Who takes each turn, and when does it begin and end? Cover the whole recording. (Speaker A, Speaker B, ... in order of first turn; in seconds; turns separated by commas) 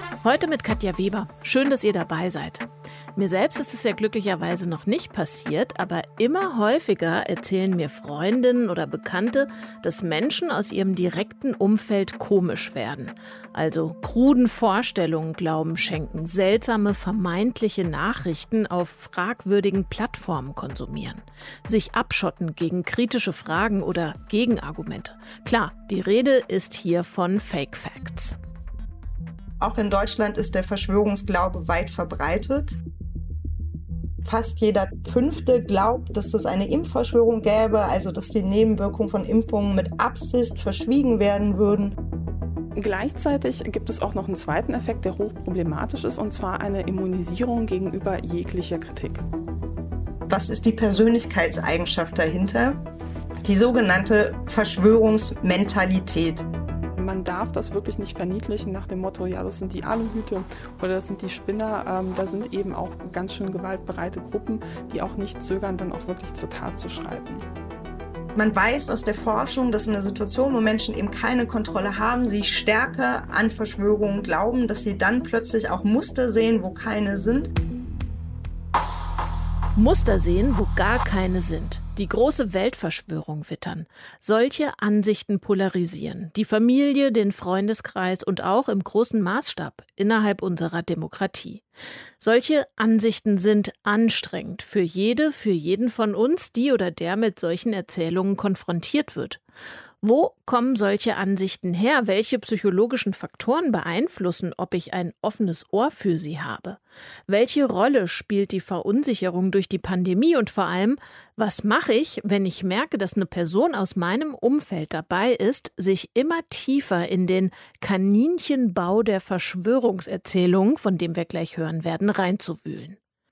Speaker A: 0.2-28.4, Speaker B: 29.6-32.8, Speaker B: 34.2-42.0, Speaker C: 42.8-49.2, Speaker B: 50.3-52.8, Speaker B: 53.4-56.5, Speaker C: 57.0-67.4, Speaker B: 68.3-77.5, Speaker A: 79.7-91.6, Speaker A: 92.2-99.4, Speaker A: 100.0-123.0